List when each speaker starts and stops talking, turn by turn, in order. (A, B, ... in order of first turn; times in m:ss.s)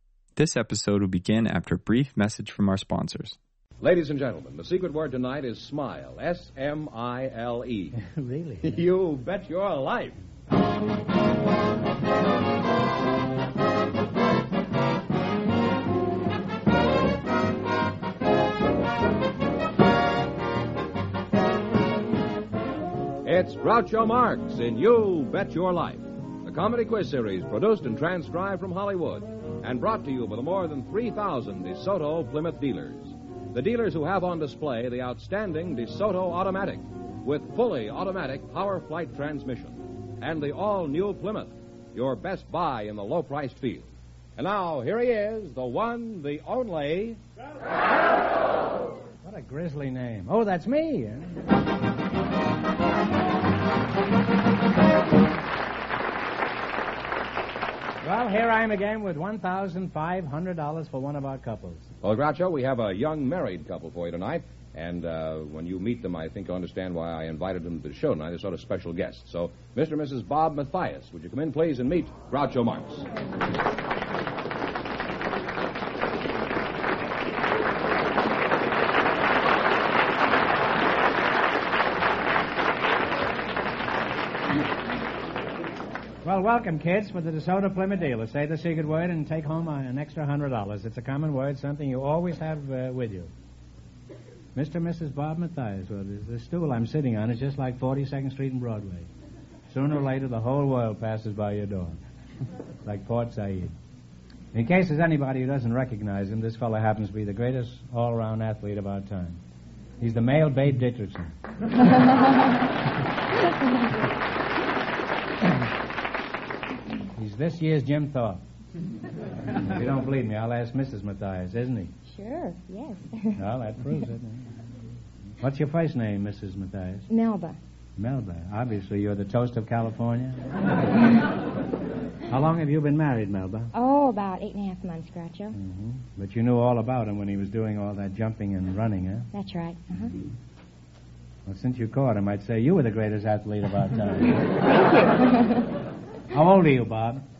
0:00.4-0:03.4 A
0:03.8-0:08.0 B
0:07.9-0:08.8 C
0:08.6-0:10.2 B
0:23.2-0:47.2 B
0:49.2-0:51.3 C
0:58.0-1:01.9 C
1:02.0-1:13.0 B
1:26.2-1:33.3 C
1:34.5-1:39.1 C
1:39.7-1:42.0 C
1:42.8-1:43.7 C
1:44.5-1:49.4 C
1:50.0-1:51.3 C
1:57.2-1:58.4 C
1:59.6-2:01.9 C
2:02.0-2:03.4 D
2:03.4-2:04.5 C
2:05.4-2:07.1 C
2:07.1-2:07.6 D
2:08.0-2:10.5 C
2:12.3-2:13.7 C
2:13.7-2:15.5 D
2:15.5-2:19.3 C
2:19.3-2:20.1 D
2:21.5-2:24.4 C
2:26.3-2:27.2 C